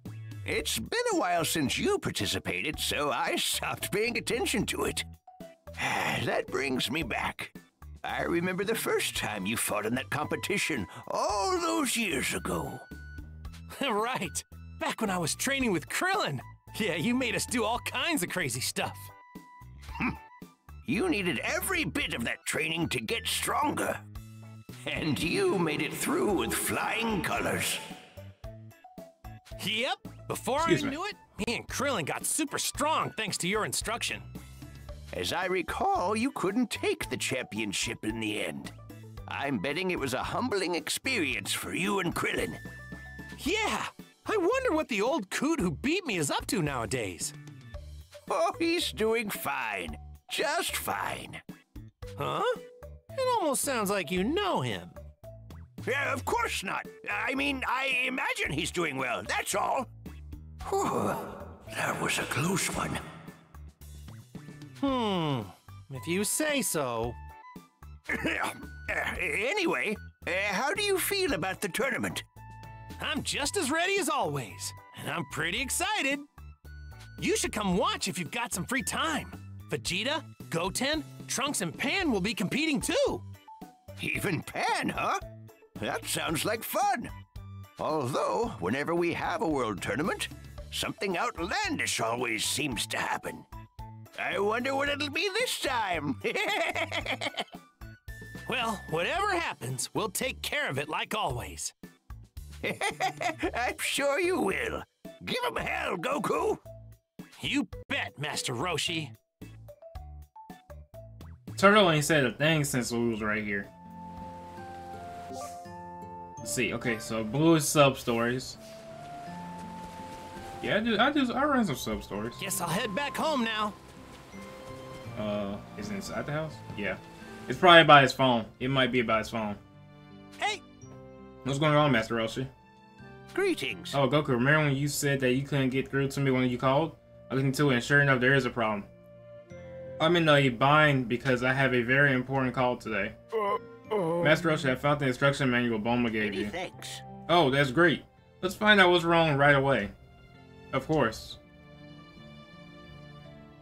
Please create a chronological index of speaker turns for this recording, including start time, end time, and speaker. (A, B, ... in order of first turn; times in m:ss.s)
0:00.4-0:05.1 A
0:05.8-0:12.9 A
0:13.7-0:19.1 B
0:20.9-0:24.0 A
0:24.8-0:27.8 A
0:29.6-0:34.3 B
0:30.6-0:31.0 C
0:35.1-0:38.7 A
0:39.3-0:42.6 A
0:43.4-0:47.4 B
0:48.3-0:51.4 A
0:52.2-0:52.6 B
0:53.1-0:55.0 B
0:55.8-0:59.9 A
1:00.6-1:03.0 A
1:04.8-1:07.2 B
1:08.1-1:12.2 A
1:13.0-1:16.3 B
1:17.2-1:23.2 B
1:24.0-1:25.2 A
1:25.8-1:27.1 A
1:27.8-1:33.4 A
1:34.2-1:37.4 A
1:38.5-1:41.7 B
1:42.6-1:46.6 A
1:47.4-1:49.1 B
1:51.6-1:53.7 C
1:56.4-1:58.6 C
2:00.6-2:02.4 C
2:02.4-2:03.8 B
2:05.2-2:09.6 C
2:11.4-2:12.5 C
2:13.3-2:14.0 A
2:13.9-2:18.9 C
2:20.0-2:23.2 C
2:24.1-2:26.5 C
2:26.2-2:27.0 A
2:27.3-2:29.9 C
2:30.7-2:31.4 C